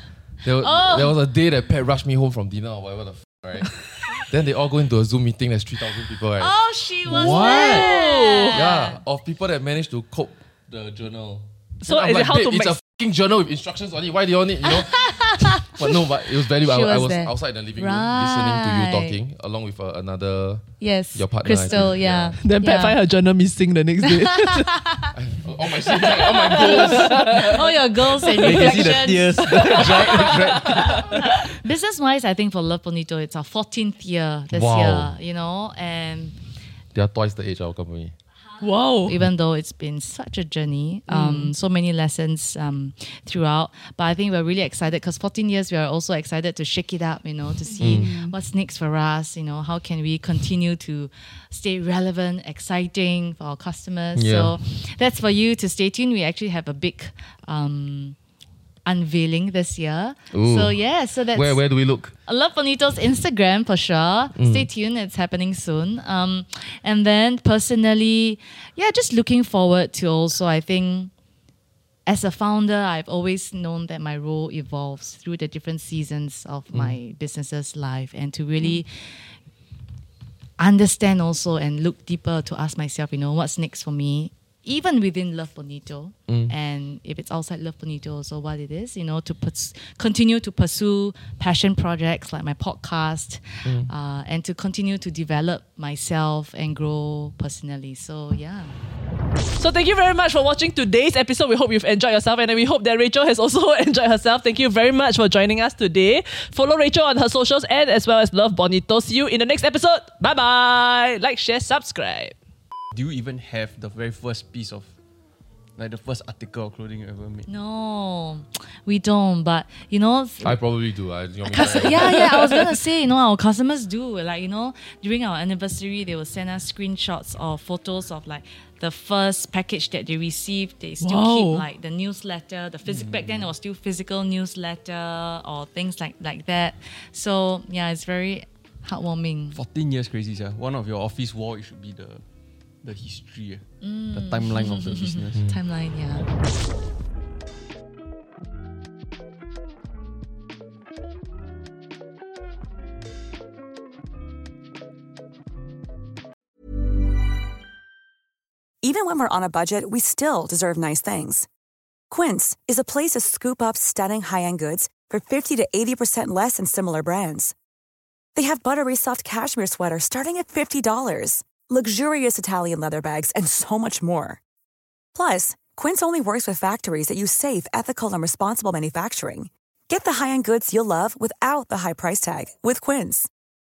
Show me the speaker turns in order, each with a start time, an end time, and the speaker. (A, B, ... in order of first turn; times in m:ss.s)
0:00.4-0:06.5 A
0:00.6-0:01.1 B
0:06.4-0:09.0 B
0:07.0-0:07.9 C
0:07.3-0:08.6 D
0:08.5-0:22.4 A
0:11.8-0:12.8 D
0:14.7-0:19.2 B
0:20.8-0:23.0 B
0:22.4-0:24.7 D
0:24.4-0:25.1 B
0:25.1-0:27.5 A
0:26.1-0:30.3 B
0:26.6-0:27.4 D
0:28.3-0:28.9 D
0:28.4-0:31.1 C
0:29.5-0:31.1 D
0:30.9-0:36.4 B
0:34.5-0:35.2 A
0:36.9-0:38.1 A
0:38.6-0:39.2 D
0:39.0-0:58.2 B
0:41.1-0:41.5 D
0:47.7-0:48.3 D
0:47.8-0:48.1 A
0:54.1-0:54.6 A
0:58.8-1:01.6 B
1:00.3-1:00.8 A
1:01.3-1:02.1 A
1:02.2-1:11.1 B
1:04.4-1:04.7 A
1:12.1-1:19.4 B
1:20.6-1:38.8 B
1:26.3-1:26.5 A
1:33.6-1:33.9 A
1:39.6-1:52.3 D
1:52.9-1:54.9 C
1:55.8-1:57.5 C
1:57.5-2:00.6 B
2:00.4-2:02.0 A
2:01.4-2:19.6 B
2:01.6-2:02.5 D
2:11.0-2:11.6 D
2:12.9-2:13.5 C
2:19.5-2:22.2 C
2:22.8-2:25.4 C
2:23.8-2:26.3 B
2:25.3-2:25.6 A
2:38.8-2:41.5 E
2:42.1-2:47.5 E
2:48.3-2:54.4 E
2:55.1-3:03.3 E